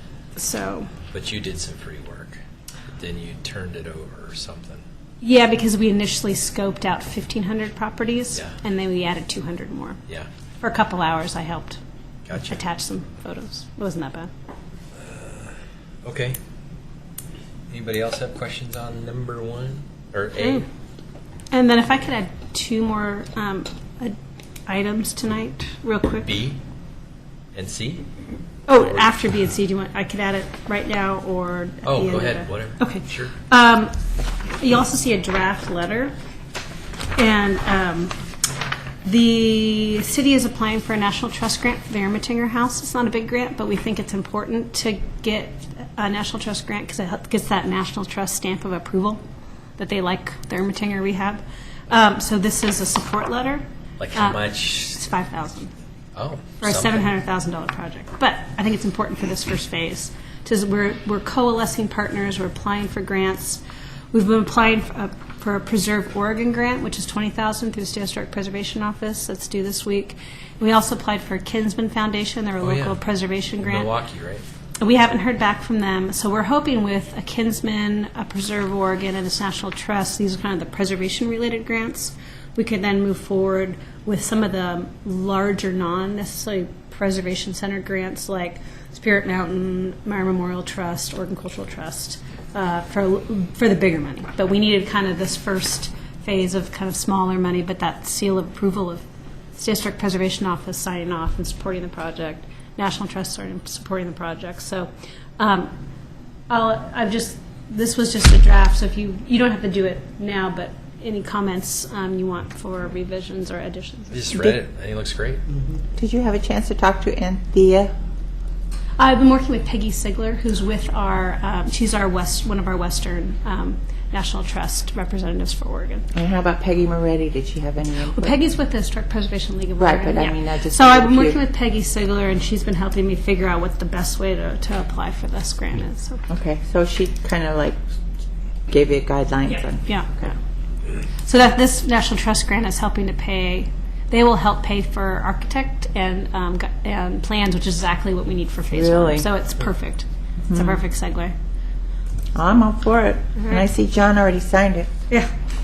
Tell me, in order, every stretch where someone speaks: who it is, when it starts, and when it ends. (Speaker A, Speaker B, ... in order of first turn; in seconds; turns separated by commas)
Speaker A: 0.4-0.9, Speaker B: 1.1-2.4, Speaker B: 3.0-4.8, Speaker A: 5.2-10.0, Speaker A: 10.6-11.8, Speaker B: 12.3-12.6, Speaker A: 12.5-14.3, Speaker B: 15.1-16.4, Speaker B: 17.7-20.6, Speaker A: 20.4-20.6, Speaker A: 21.5-26.3, Speaker B: 26.2-26.6, Speaker B: 27.6-28.1, Speaker A: 28.7-33.9, Speaker B: 28.7-29.1, Speaker B: 31.9-33.3, Speaker A: 34.5-36.1, Speaker A: 37.2-38.1, Speaker A: 39.0-49.2, Speaker A: 49.8-53.6, Speaker B: 54.0-55.0, Speaker A: 54.1-55.7, Speaker B: 56.1-57.1, Speaker A: 56.6-73.9, Speaker B: 72.6-73.0, Speaker B: 73.6-74.4, Speaker A: 74.8-99.0, Speaker A: 99.5-105.7, Speaker A: 106.5-114.6, Speaker B: 114.1-115.4, Speaker C: 116.0-117.9, Speaker A: 119.0-126.1, Speaker C: 126.1-128.3, Speaker A: 128.1-136.2, Speaker C: 129.8-131.4, Speaker C: 136.3-137.8, Speaker C: 138.7-140.3, Speaker A: 139.5-140.4, Speaker A: 141.2-151.3, Speaker C: 148.7-149.3, Speaker C: 150.5-150.8, Speaker C: 152.3-154.9, Speaker A: 153.4-153.6